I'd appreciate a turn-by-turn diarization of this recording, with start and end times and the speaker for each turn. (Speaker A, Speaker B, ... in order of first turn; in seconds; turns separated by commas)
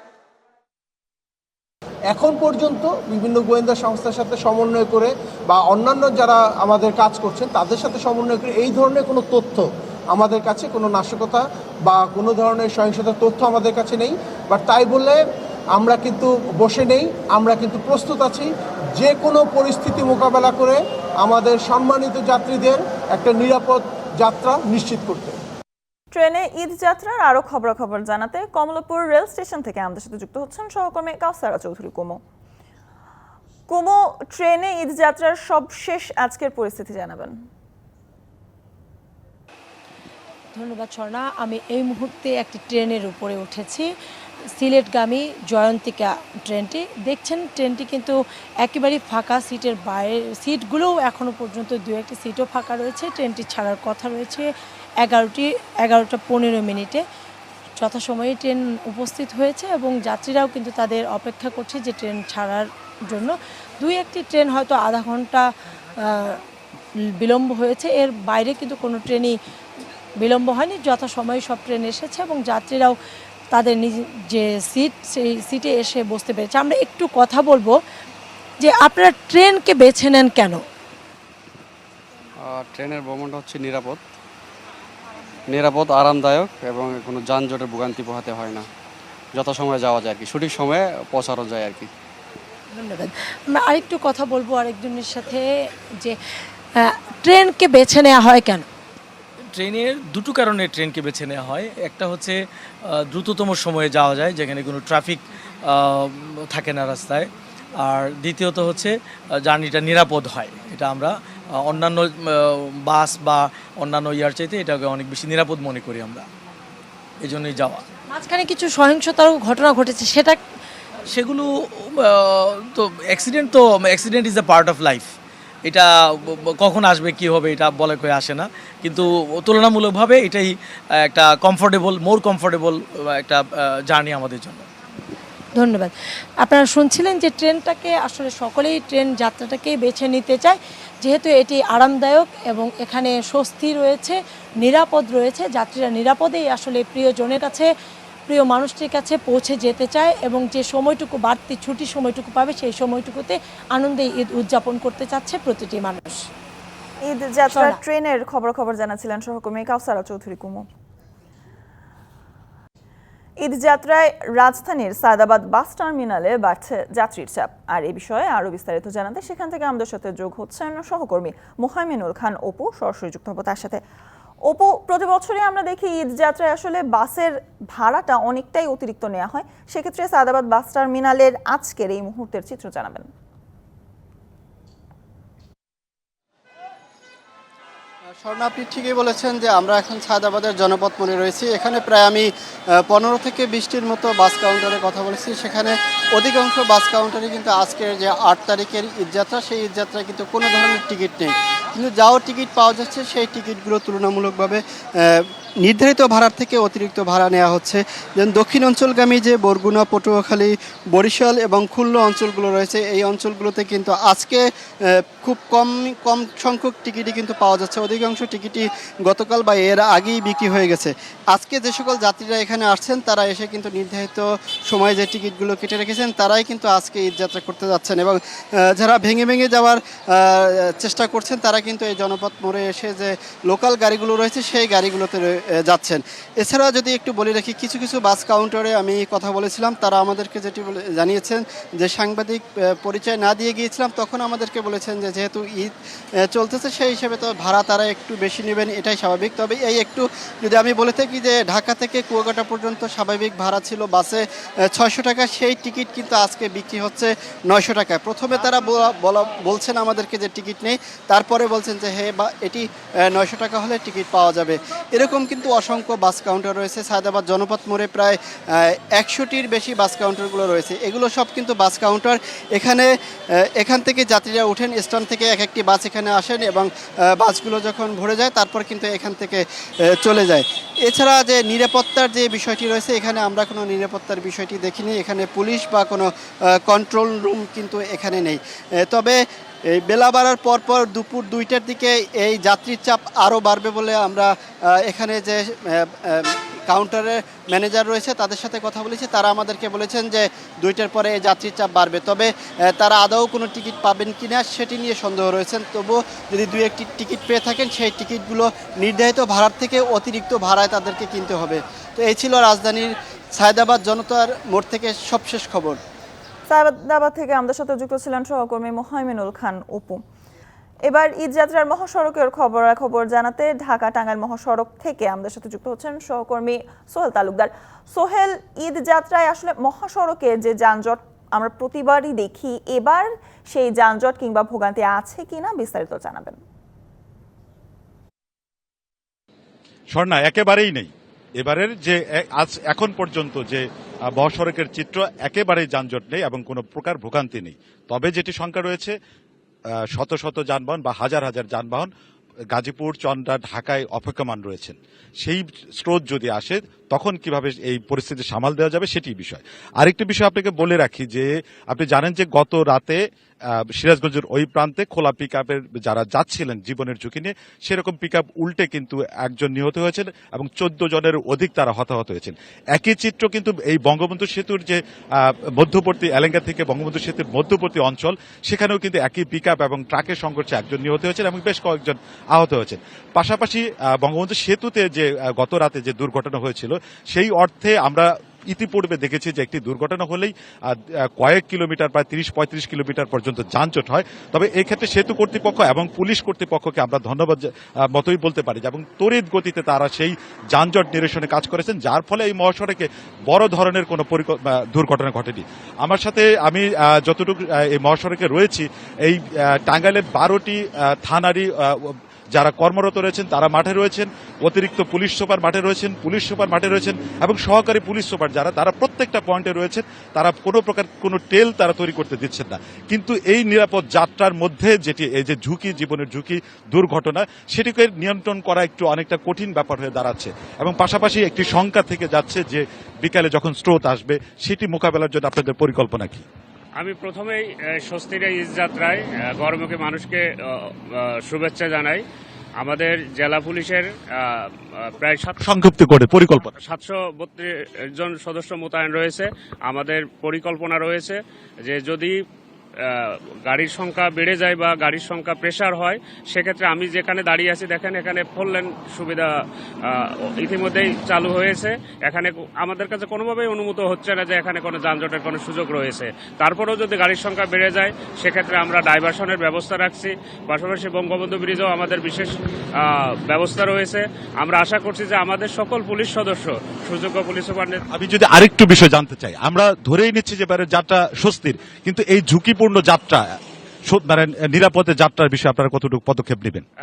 Speaker A: 2.1-25.4, Speaker B: 26.1-32.2, Speaker B: 33.7-37.4, Speaker C: 40.5-43.9, Speaker C: 44.6-54.5, Speaker C: 55.0-57.0, Speaker C: 57.8-65.5, Speaker C: 66.0-66.4, Speaker C: 67.2-69.4, Speaker C: 70.2-73.0, Speaker C: 73.5-77.8, Speaker C: 78.6-80.6, Speaker D: 82.4-84.0, Speaker D: 85.5-88.7, Speaker D: 89.3-91.9, Speaker C: 92.7-95.5, Speaker C: 96.8-98.7, Speaker E: 99.5-116.3, Speaker E: 117.2-117.8, Speaker C: 118.1-120.4, Speaker E: 121.1-134.7, Speaker C: 135.6-147.7, Speaker C: 148.3-156.3, Speaker B: 157.0-160.7, Speaker C: 157.5-157.8, Speaker B: 163.4-173.8, Speaker B: 174.5-183.1, Speaker F: 188.2-192.3, Speaker F: 192.8-245.7, Speaker F: 246.2-272.9, Speaker F: 273.6-315.8, Speaker B: 316.5-320.0, Speaker B: 320.9-336.4, Speaker G: 339.9-348.9, Speaker G: 349.9-351.9, Speaker G: 352.5-363.0, Speaker G: 363.8-436.2, Speaker H: 436.8-442.0, Speaker H: 442.6-445.4, Speaker G: 445.4-446.5, Speaker H: 446.6-452.2, Speaker H: 452.8-459.3, Speaker H: 459.9-477.8, Speaker G: 477.9-483.4, Speaker G: 483.9-486.6